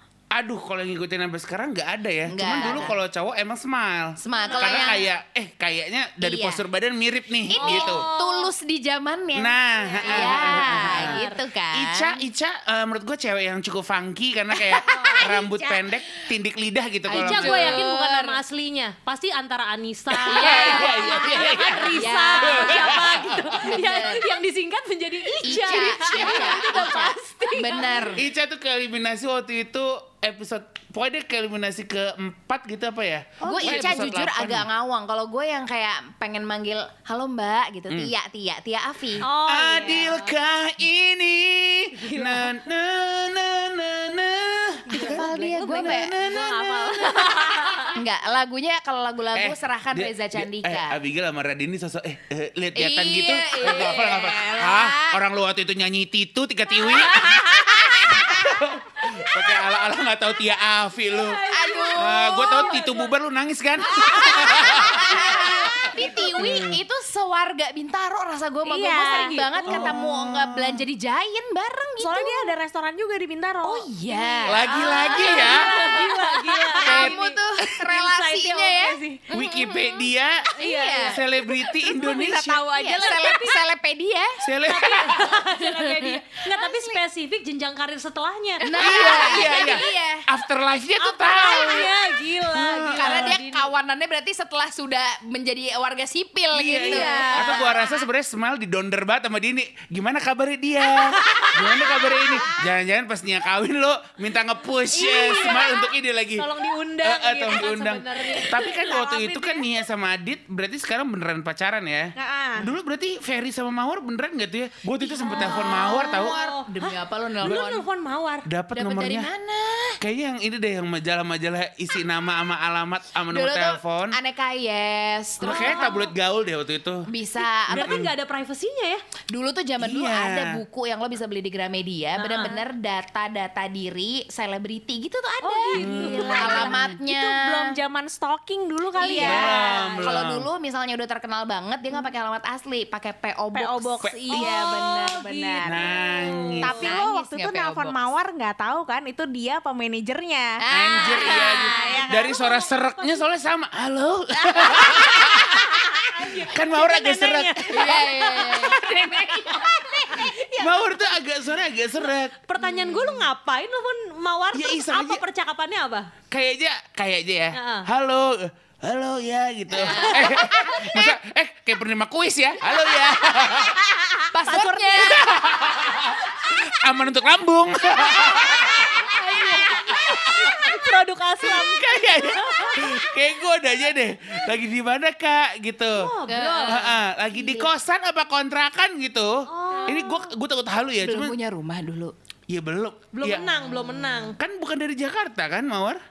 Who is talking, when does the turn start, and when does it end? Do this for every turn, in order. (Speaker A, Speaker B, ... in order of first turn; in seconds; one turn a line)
Speaker A: 0.3-8.0
Speaker B: 2.3-3.0
Speaker B: 4.2-5.1
Speaker C: 4.4-4.9
Speaker B: 6.2-6.6
Speaker B: 7.5-12.2
Speaker C: 7.5-8.5
Speaker A: 9.4-11.2
Speaker C: 9.8-11.4
Speaker A: 11.7-17.8
Speaker B: 14.5-15.8
Speaker B: 17.1-18.4
Speaker C: 17.1-28.1
Speaker A: 20.1-23.7
Speaker B: 20.3-24.2
Speaker D: 25.4-28.1
Speaker B: 25.4-28.2
Speaker A: 26.1-27.1
Speaker A: 28.1-34.7
Speaker B: 33.4-39.2
Speaker D: 33.5-34.1
Speaker D: 39.2-40.2
Speaker A: 39.4-47.0
Speaker C: 39.8-40.2
Speaker C: 42.0-42.6
Speaker B: 44.9-46.1
Speaker C: 45.0-47.9
Speaker D: 46.2-47.9
Speaker B: 47.9-51.0
Speaker A: 49.4-61.5
Speaker B: 52.8-55.2
Speaker B: 56.8-58.5
Speaker C: 61.1-63.1
Speaker B: 61.5-62.8
Speaker A: 62.0-66.8
Speaker B: 63.8-72.5
Speaker C: 65.8-66.5
Speaker D: 68.7-69.4
Speaker C: 69.0-69.9
Speaker A: 69.6-70.8
Speaker D: 72.0-74.6
Speaker B: 73.6-79.8
Speaker A: 74.5-75.7
Speaker C: 75.1-79.0
Speaker D: 76.8-77.1
Speaker A: 79.3-82.6
Speaker B: 80.6-81.2
Speaker D: 80.6-81.0
Speaker D: 81.7-83.6
Speaker B: 82.7-84.4
Speaker C: 83.0-83.6
Speaker A: 84.4-85.4
Speaker C: 84.7-89.6
Speaker B: 85.5-87.0
Speaker B: 88.6-90.2
Speaker A: 88.7-93.4
Speaker C: 91.0-93.7
Speaker B: 93.0-97.9
Speaker A: 96.5-106.5
Speaker D: 96.8-97.4
Speaker C: 97.0-97.7
Speaker C: 101.0-101.5
Speaker B: 101.8-102.5
Speaker C: 104.9-109.7
Speaker A: 107.0-116.3
Speaker D: 112.2-112.7
Speaker B: 115.2-117.8
Speaker C: 115.2-118.5
Speaker A: 118.5-119.3
Speaker B: 118.7-120.0
Speaker A: 120.0-124.2
Speaker B: 123.3-125.9
Speaker A: 125.4-127.1
Speaker C: 125.4-126.1
Speaker B: 127.1-128.0
Speaker C: 127.7-129.0
Speaker A: 127.8-128.1
Speaker B: 129.3-137.8
Speaker A: 129.8-130.6
Speaker D: 132.2-132.7
Speaker C: 135.4-136.7
Speaker A: 135.8-136.8
Speaker D: 135.8-139.5
Speaker B: 139.0-144.1
Speaker C: 139.0-140.1
Speaker A: 139.2-140.5
Speaker D: 143.5-146.0
Speaker A: 144.0-144.5
Speaker C: 144.3-146.6
Speaker A: 145.6-146.8
Speaker D: 146.6-152.6
Speaker B: 146.6-148.1
Speaker B: 150.6-152.1
Speaker A: 150.7-157.8
Speaker C: 152.2-153.1
Speaker D: 154.3-156.0
Speaker C: 156.0-161.1
Speaker B: 157.7-160.3
Speaker A: 160.3-162.3
Speaker C: 162.4-166.1
Speaker B: 162.6-163.2
Speaker A: 164.5-165.2
Speaker A: 166.3-173.8
Speaker C: 167.5-167.9
Speaker B: 169.7-171.2
Speaker B: 174.3-176.2
Speaker C: 174.4-175.2
Speaker A: 175.0-180.8
Speaker B: 178.0-180.8
Speaker C: 180.5-182.9
Speaker A: 181.4-186.1
Speaker C: 185.9-186.8
Speaker B: 186.3-187.7
Speaker A: 186.7-191.3
Speaker C: 189.5-190.3
Speaker B: 191.0-192.1
Speaker A: 192.5-193.5
Speaker C: 193.1-194.4
Speaker B: 193.4-194.0
Speaker A: 194.3-196.0